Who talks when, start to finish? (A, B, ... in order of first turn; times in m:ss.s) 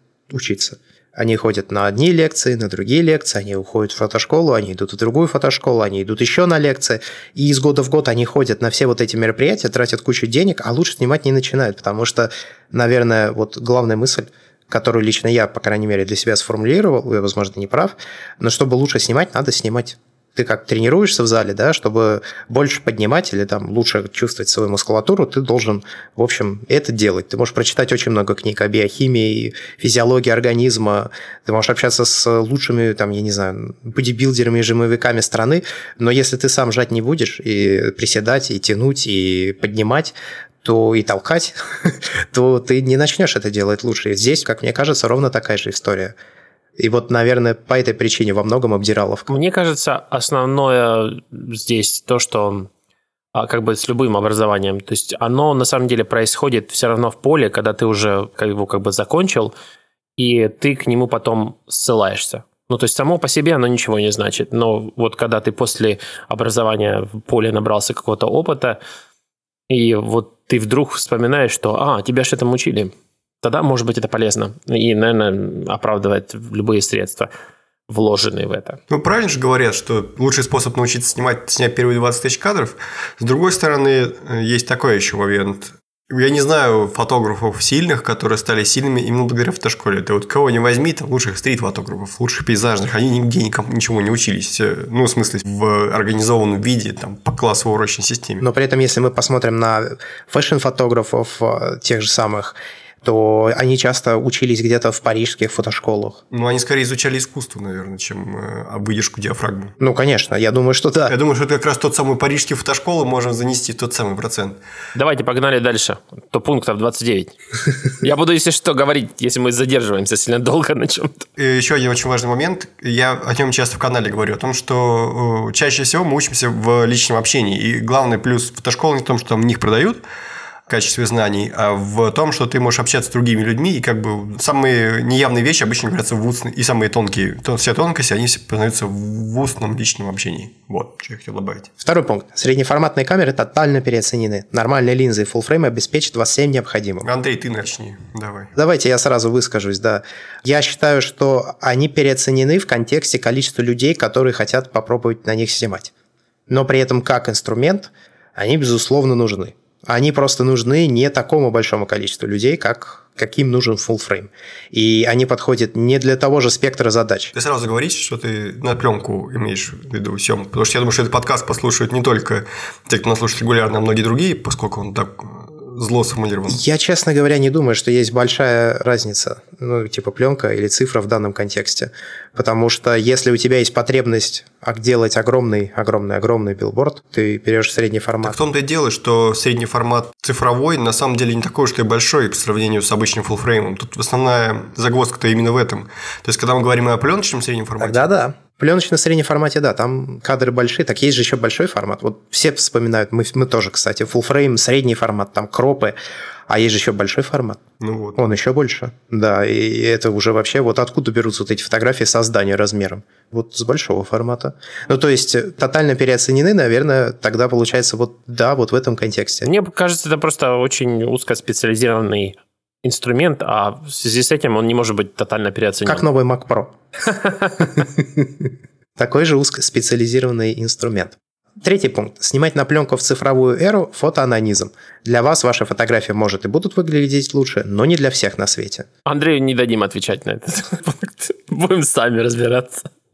0:00.3-0:46.1 A
0:46.8-0:49.3 A
0:49.3-0:52.7 B
0:53.3-0:59.5 B
1:00.2-1:08.8 B
1:09.7-1:17.3 B
1:17.9-1:18.8 B
1:18.9-1:38.4 C
1:38.4-1:46.2 A
1:46.3-1:49.7 C
1:49.8-1:51.1 A
1:51.1-1:54.6 C
1:54.9-1:57.3 B
1:58.0-2:01.3 B
2:01.4-2:10.0 C
2:10.7-2:21.7 C
2:21.8-2:27.1 A
2:27.0-2:28.5 C
2:28.5-2:35.9 A
2:36.5-2:47.3 A
2:47.3-2:56.6 C
2:56.5-3:08.4 A
3:08.2-3:18.1 C
3:17.8-3:26.0 A
3:26.5-3:27.6 A
3:27.8-3:28.2 C
3:28.2-3:39.5 A
3:39.4-3:46.0 B
3:45.8-3:46.7 A
3:47.6-3:58.9 A
3:59.0-4:02.9 B